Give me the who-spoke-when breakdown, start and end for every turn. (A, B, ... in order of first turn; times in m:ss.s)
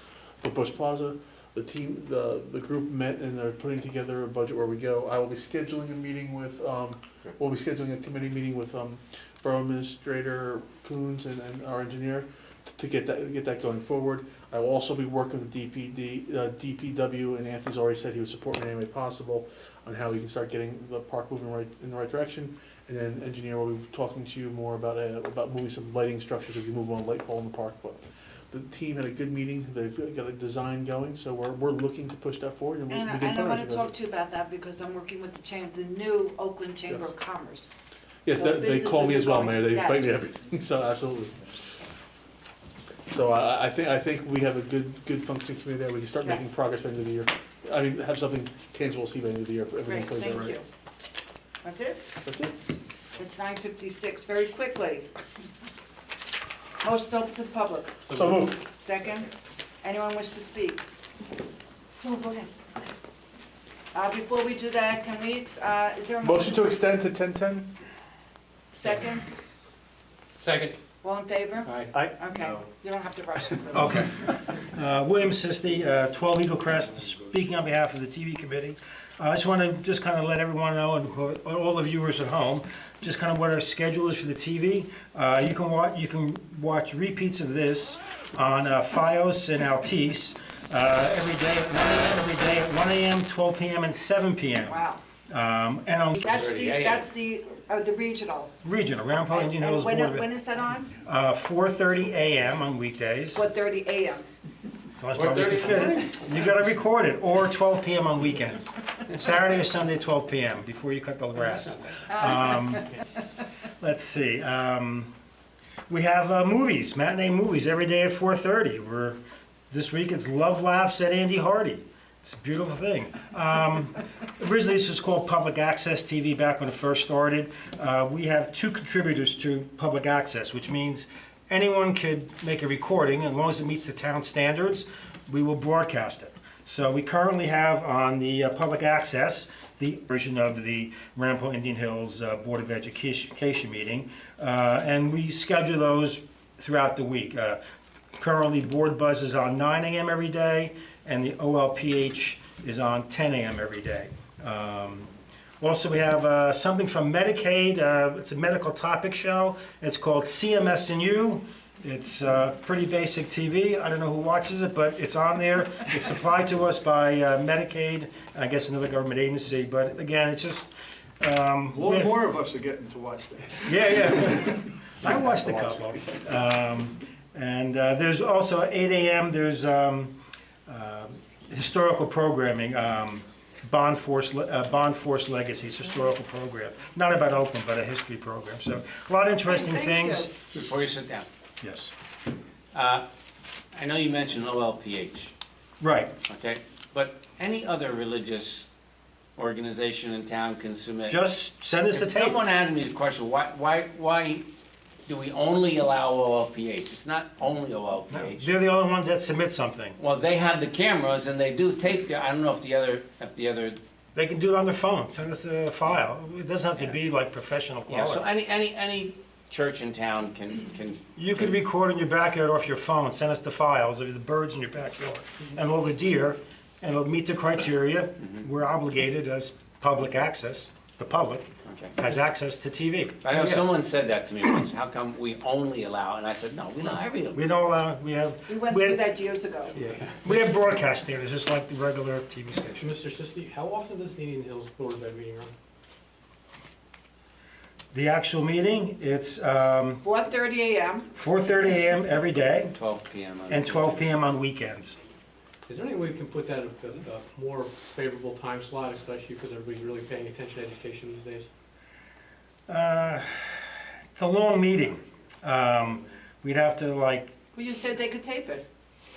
0:00.4-0:33.9 A
0:32.9-0:37.8 B
0:38.3-0:41.7 A
0:38.4-0:40.1 B
0:43.1-0:50.6 A
0:49.8-0:50.6 B
0:51.6-0:52.2 B
0:52.2-0:52.5 A
0:53.2-0:55.1 B
0:56.8-0:58.0 B
0:58.0-0:58.5 C
0:58.1-0:58.6 A
0:58.8-0:59.3 B
0:59.8-1:00.8 B
1:02.0-1:02.5 B
1:03.9-1:06.7 B
1:06.2-1:07.7 A
1:08.8-1:09.3 B
1:10.4-1:10.8 C
1:11.0-1:14.0 B
1:11.7-1:12.0 C
1:13.7-1:36.2 D
1:34.7-1:35.0 B
1:36.2-1:38.5 B
1:36.3-1:37.1 E
1:38.6-1:40.3 D
1:39.3-1:41.0 B
1:41.0-1:43.4 D
1:43.4-1:44.3 B
1:45.0-1:52.9 D
1:45.2-1:46.2 E
1:52.1-1:52.9 B
1:53.8-1:55.1 D
1:55.9-1:59.2 D
1:59.7-2:27.6 D
2:28.2-2:52.2 D
2:51.7-2:56.2 F
2:53.6-3:10.3 D
3:09.5-3:10.3 B
3:10.5-3:11.3 E
3:11.6-3:11.9 D
3:12.7-3:13.1 E
3:13.7-3:15.3 E
3:15.8-3:16.2 D
3:16.3-3:18.7 E
3:19.4-3:21.2 E
3:21.1-3:22.4 D
3:21.9-3:24.5 E
3:25.1-3:28.5 E
3:28.1-3:30.0 D
3:30.0-3:33.8 E
3:34.2-3:38.2 D
3:37.9-3:41.5 E
3:41.2-3:53.7 D
3:51.7-3:51.9 E
3:53.2-3:57.4 E
3:57.3-3:59.1 D
3:58.5-3:59.8 B
3:59.7-4:02.8 D
4:02.8-4:05.5 C
4:07.9-4:10.0 D
4:10.0-4:11.1 B
4:11.2-4:12.7 D
4:12.7-4:14.1 E
4:13.5-4:15.0 D
4:15.7-4:21.5 C
4:22.7-4:27.3 D
4:27.6-4:28.7 B